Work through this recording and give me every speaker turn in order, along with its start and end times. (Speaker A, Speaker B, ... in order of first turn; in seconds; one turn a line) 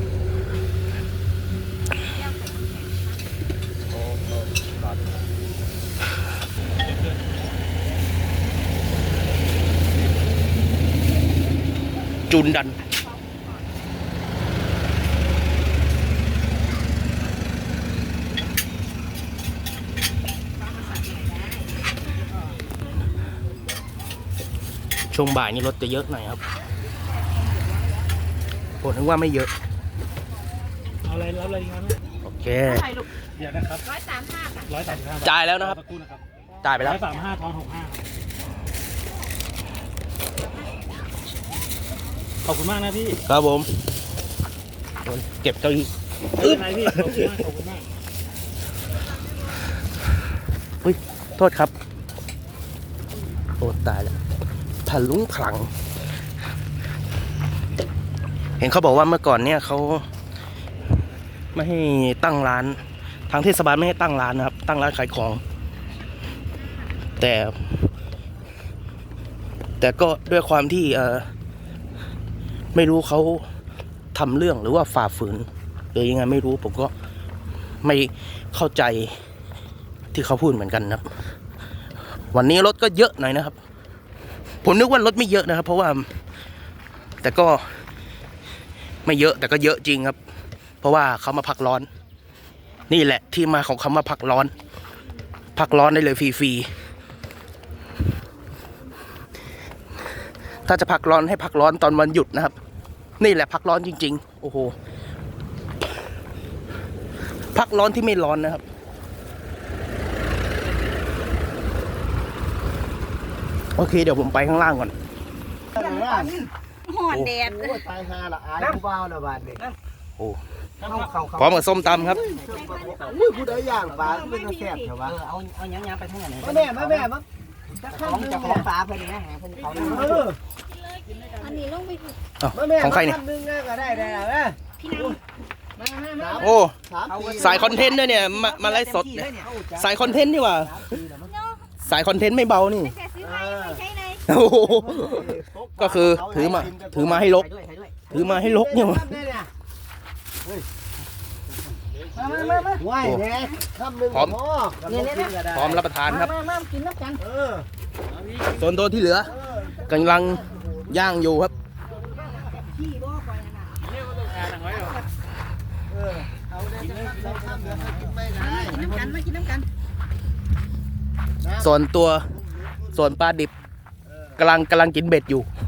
Speaker A: 2.0-3.2
Speaker B: 12.3-12.8
Speaker A: 12.8-13.5
Speaker A: 20.6-21.7
Speaker B: 25.1-26.4
Speaker A: 27.4-27.9
Speaker B: 28.8-29.5
Speaker C: 31.0-32.0
Speaker B: 32.2-33.0
Speaker C: 33.4-33.9
Speaker A: 33.9-34.7
Speaker C: 34.7-36.2
Speaker B: 35.2-35.8
Speaker B: 36.6-37.0
Speaker C: 36.8-38.1
Speaker A: 40.5-40.8
Speaker C: 42.4-43.2
Speaker B: 43.3-43.7
Speaker B: 45.0-47.4
Speaker C: 46.3-47.9
Speaker B: 50.8-51.7
Speaker B: 53.6-54.2
Speaker B: 54.9-55.7
Speaker B: 58.6-60.1
Speaker B: 61.5-65.4
Speaker B: 67.2-67.9
Speaker B: 69.8-71.3
Speaker B: 72.7-73.5
Speaker B: 74.1-76.9
Speaker B: 77.8-79.2
Speaker B: 80.1-81.0
Speaker B: 82.3-83.6
Speaker B: 84.6-86.1
Speaker B: 87.2-87.7
Speaker B: 89.0-90.2
Speaker B: 90.8-91.9
Speaker B: 92.9-94.5
Speaker B: 95.5-96.7
Speaker B: 100.6-102.6
Speaker B: 103.2-104.8
Speaker B: 107.5-108.6
Speaker B: 113.8-115.0
Speaker D: 115.8-116.4
Speaker A: 115.8-116.3
Speaker A: 116.9-117.8
Speaker B: 117.1-117.5
Speaker D: 117.5-119.6
Speaker E: 120.8-124.2
Speaker B: 121.3-122.2
Speaker D: 122.0-125.1
Speaker A: 122.4-124.9
Speaker E: 124.8-127.1
Speaker D: 126.4-127.2
Speaker E: 127.8-130.3
Speaker D: 127.9-128.7
Speaker D: 129.8-130.4
Speaker A: 131.2-132.2
Speaker B: 132.4-133.2
Speaker D: 132.6-134.6
Speaker A: 134.0-134.3
Speaker A: 134.8-135.2
Speaker D: 136.1-137.9
Speaker B: 136.4-136.8
Speaker E: 137.1-139.6
Speaker B: 137.4-141.0
Speaker D: 140.7-141.2
Speaker A: 141.2-141.7
Speaker B: 141.8-142.9
Speaker A: 142.8-144.2
Speaker D: 143.2-143.8
Speaker B: 144.3-147.5
Speaker D: 144.6-147.2
Speaker E: 147.3-148.1
Speaker B: 148.1-149.2
Speaker D: 148.1-149.5
Speaker E: 152.3-152.8
Speaker D: 152.8-155.8
Speaker B: 153.0-153.3
Speaker B: 154.1-154.4
Speaker B: 155.5-156.4
Speaker E: 156.5-157.2
Speaker A: 156.6-156.9
Speaker D: 157.2-157.7
Speaker B: 158.5-161.5
Speaker D: 159.2-160.7
Speaker A: 162.1-163.7
Speaker C: 163.8-165.0
Speaker D: 165.9-169.2
Speaker A: 168.8-169.6
Speaker B: 171.6-172.3
Speaker B: 172.9-173.5
Speaker B: 174.4-175.5